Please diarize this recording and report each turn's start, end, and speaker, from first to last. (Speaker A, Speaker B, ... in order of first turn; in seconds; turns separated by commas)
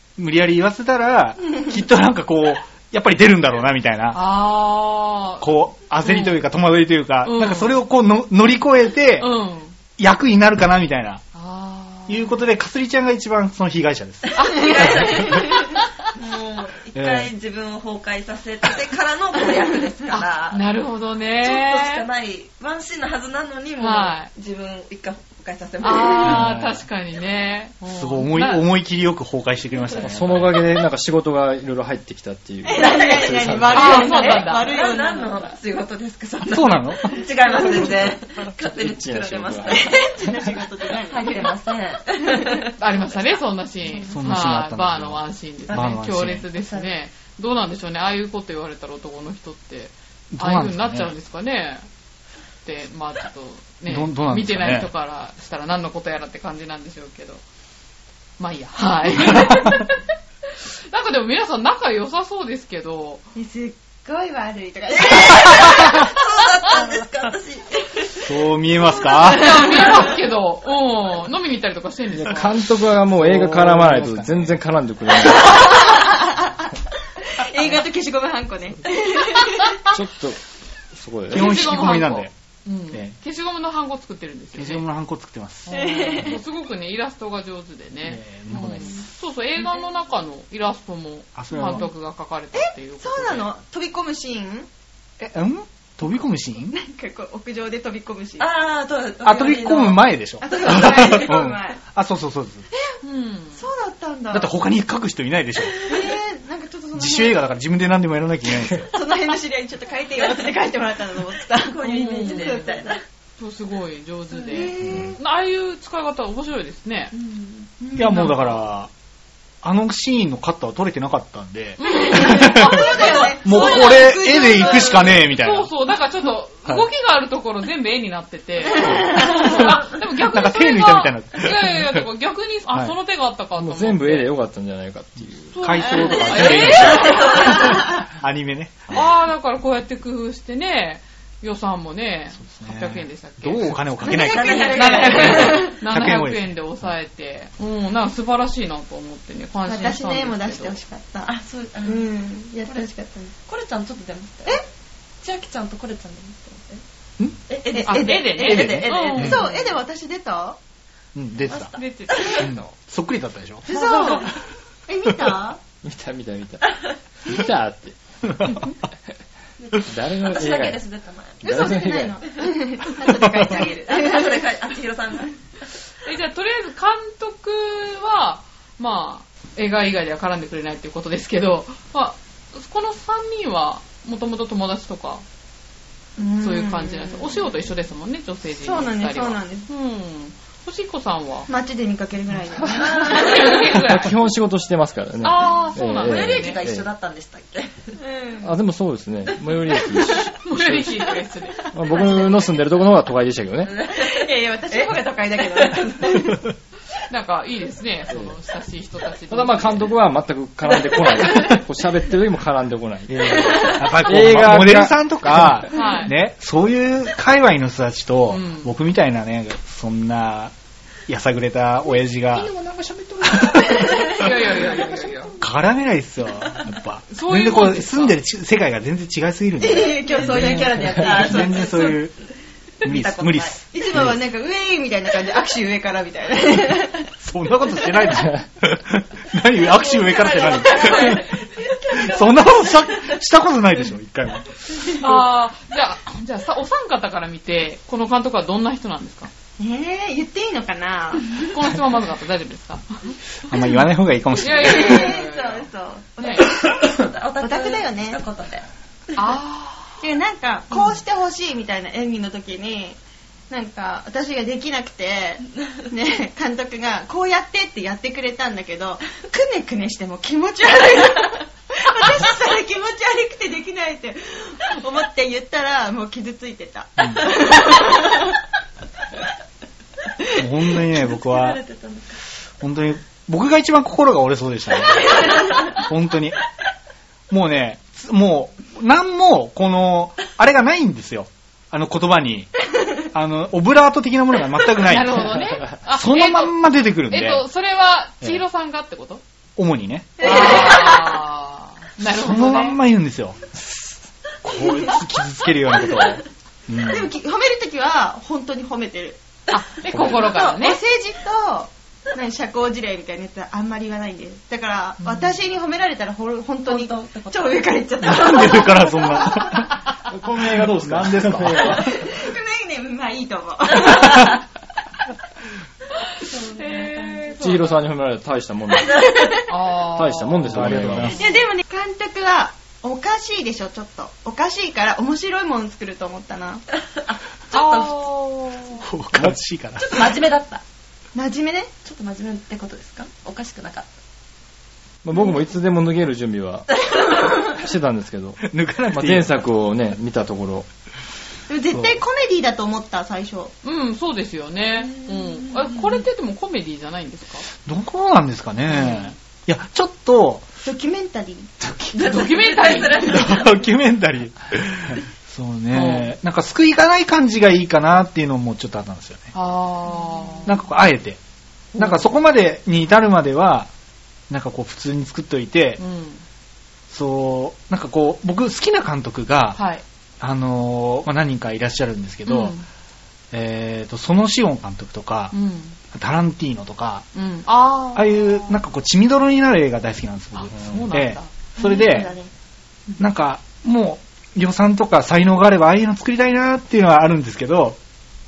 Speaker A: 0.2-4.2, Speaker B: 4.1-5.5, Speaker A: 5.4-9.3, Speaker B: 6.0-6.4, Speaker B: 7.2-7.8, Speaker B: 9.2-9.8, Speaker A: 10.0-11.2, Speaker B: 11.3-12.3, Speaker A: 12.1-15.4, Speaker C: 14.3-20.7, Speaker B: 14.4-15.2, Speaker D: 14.7-15.5, Speaker A: 16.9-17.3, Speaker B: 20.1-22.1, Speaker C: 21.3-26.5, Speaker B: 23.8-24.3, Speaker B: 25.8-28.6, Speaker A: 26.2-26.8, Speaker A: 27.9-30.6, Speaker E: 29.9-34.3, Speaker D: 32.6-35.5, Speaker C: 32.7-40.2, Speaker B: 33.7-34.8, Speaker A: 36.5-37.2, Speaker D: 37.5-37.9, Speaker E: 38.5-39.9, Speaker D: 39.7-41.5, Speaker C: 41.0-42.7, Speaker D: 42.4-42.7, Speaker B: 42.8-51.9, Speaker A: 44.0-46.5, Speaker A: 50.3-51.1, Speaker B: 52.6-57.4, Speaker A: 53.9-54.9, Speaker B: 58.4-60.0, Speaker A: 59.1-59.8, Speaker B: 60.6-63.2, Speaker D: 63.4-66.0, Speaker C: 64.9-68.3, Speaker A: 68.2-69.7, Speaker D: 69.1-70.1, Speaker B: 69.3-72.5, Speaker E: 72.2-75.7, Speaker A: 73.1-74.6, Speaker D: 75.3-79.9, Speaker E: 79.9-80.4, Speaker E: 81.0-81.5, Speaker A: 81.3-82.3, Speaker B: 81.3-84.8, Speaker A: 84.6-85.7, Speaker B: 85.7-93.5, Speaker D: 85.7-86.4, Speaker A: 88.0-89.0, Speaker A: 91.4-91.9, Speaker D: 92.5-94.7, Speaker A: 95.2-96.8, Speaker D: 96.7-98.5, Speaker C: 98.4-101.3, Speaker A: 99.2-102.7, Speaker D: 100.4-101.8, Speaker B: 103.0-103.7, Speaker D: 103.5-104.5, Speaker A: 104.3-105.8, Speaker D: 105.8-107.4, Speaker A: 107.0-108.9, Speaker D: 108.9-113.0, Speaker C: 111.5-113.0, Speaker B: 111.8-112.6, Speaker B: 113.4-117.1, Speaker C: 114.4-114.7, Speaker D: 114.5-115.2, Speaker A: 114.8-115.1, Speaker C: 117.2-117.7, Speaker D: 117.8-118.3, Speaker A: 118.0-118.9, Speaker B: 118.1-118.5, Speaker A: 119.6-125.7, Speaker B: 121.8-134.3, Speaker D: 122.0-125.2, Speaker A: 128.8-132.1, Speaker D: 128.9-129.4, Speaker E: 133.6-135.7, Speaker B: 135.5-137.7, Speaker A: 135.6-139.0, Speaker C: 135.9-137.9, Speaker D: 136.1-137.8, Speaker B: 138.9-150.8, Speaker A: 142.4-146.6, Speaker D: 144.0-145.7, Speaker C: 144.1-145.6, Speaker D: 149.7-151.3, Speaker C: 151.2-152.1, Speaker D: 151.8-153.3, Speaker C: 152.6-154.7, Speaker C: 155.2-156.8, Speaker C: 157.5-159.8, Speaker D: 157.7-160.6, Speaker B: 157.8-159.5, Speaker A: 158.5-159.4, Speaker A: 161.2-161.8, Speaker C: 161.5-162.5, Speaker B: 161.7-162.7, Speaker A: 162.3-163.7, Speaker D: 163.7-164.3, Speaker C: 163.7-164.3, Speaker D: 164.9-165.6, Speaker E: 165.8-166.6, Speaker C: 166.7-166.9, Speaker E: 167.2-168.5, Speaker A: 168.3-168.7, Speaker C: 169.6-171.8, Speaker E: 169.8-170.8, Speaker D: 171.4-174.5, Speaker E: 171.4-172.2, Speaker C: 173.5-175.4, Speaker B: 176.0-185.2, Speaker D: 186.2-187.5, Speaker B: 186.4-191.5, Speaker D: 188.6-189.7, Speaker D: 191.5-193.6, Speaker C: 192.9-193.4, Speaker B: 193.0-194.2, Speaker E: 193.7-196.9, Speaker B: 195.2-196.6, Speaker C: 196.0-198.0, Speaker D: 198.0-198.5, Speaker E: 198.4-201.0, Speaker B: 200.4-201.7, Speaker E: 201.7-203.8, Speaker C: 201.9-202.3, Speaker C: 203.7-206.2, Speaker D: 203.9-206.4, Speaker B: 207.1-209.9, Speaker E: 208.1-208.4, Speaker E: 209.3-215.7, Speaker A: 213.1-220.5, Speaker B: 215.7-216.1, Speaker B: 218.3-218.7, Speaker A: 221.1-222.5, Speaker E: 222.4-223.5, Speaker A: 223.2-224.3, Speaker B: 223.8-225.4, Speaker A: 225.4-232.1, Speaker B: 227.1-228.2, Speaker D: 229.6-231.9, Speaker C: 230.1-232.1, Speaker C: 232.8-233.6, Speaker A: 232.8-234.1, Speaker D: 233.7-237.1, Speaker A: 237.2-241.4, Speaker C: 239.6-243.2, Speaker A: 242.0-244.6, Speaker B: 244.9-249.3, Speaker D: 249.6-251.5, Speaker B: 251.4-253.1, Speaker A: 253.5-255.1, Speaker B: 254.4-255.7, Speaker D: 254.7-256.5, Speaker C: 254.7-258.6, Speaker B: 256.2-256.5, Speaker D: 257.4-258.2, Speaker B: 259.2-260.0, Speaker D: 260.0-263.0, Speaker D: 263.5-278.4, Speaker A: 277.0-277.3, Speaker A: 280.4-281.6, Speaker C: 280.9-282.2, Speaker A: 282.6-286.4, Speaker A: 287.3-292.5, Speaker A: 293.1-297.4, Speaker B: 294.8-296.6, Speaker B: 297.1-299.2, Speaker A: 299.6-300.8, Speaker B: 300.2-302.8, Speaker A: 302.0-303.4, Speaker A: 304.4-307.1, Speaker D: 306.8-309.2, Speaker B: 309.5-310.8, Speaker D: 309.8-319.5, Speaker B: 315.0-315.3, Speaker C: 316.7-317.8, Speaker A: 318.0-319.7, Speaker E: 320.1-322.0, Speaker A: 320.2-322.0, Speaker D: 321.6-324.4, Speaker C: 326.2-327.4, Speaker B: 326.5-327.8, Speaker E: 327.4-329.1, Speaker B: 329.5-330.8, Speaker E: 329.9-331.2, Speaker A: 330.5-331.2, Speaker D: 331.1-336.6, Speaker C: 336.9-338.1, Speaker B: 337.5-338.8, Speaker A: 338.8-340.0, Speaker C: 339.8-340.6, Speaker D: 341.1-341.7, Speaker C: 341.8-343.9, Speaker E: 345.0-346.7, Speaker E: 347.4-350.7, Speaker A: 348.4-349.5, Speaker D: 351.5-353.5, Speaker A: 351.7-352.0, Speaker B: 353.6-357.5, Speaker C: 354.8-356.0, Speaker A: 357.7-360.5, Speaker B: 358.7-359.1, Speaker D: 360.6-361.6, Speaker B: 361.9-363.2, Speaker C: 361.9-363.6, Speaker A: 363.0-369.3, Speaker B: 365.7-366.1, Speaker B: 369.3-370.6, Speaker A: 370.5-371.2, Speaker B: 371.7-372.1, Speaker A: 371.8-373.7, Speaker A: 374.3-375.8, Speaker B: 375.8-376.2, Speaker A: 376.9-379.6, Speaker B: 379.6-379.8, Speaker A: 380.2-382.5, Speaker B: 382.3-382.7, Speaker A: 383.3-385.3, Speaker B: 385.3-385.8, Speaker A: 385.9-387.1, Speaker B: 387.1-388.6, Speaker A: 387.9-392.1, Speaker B: 390.4-391.8, Speaker C: 391.6-392.3, Speaker A: 393.0-397.8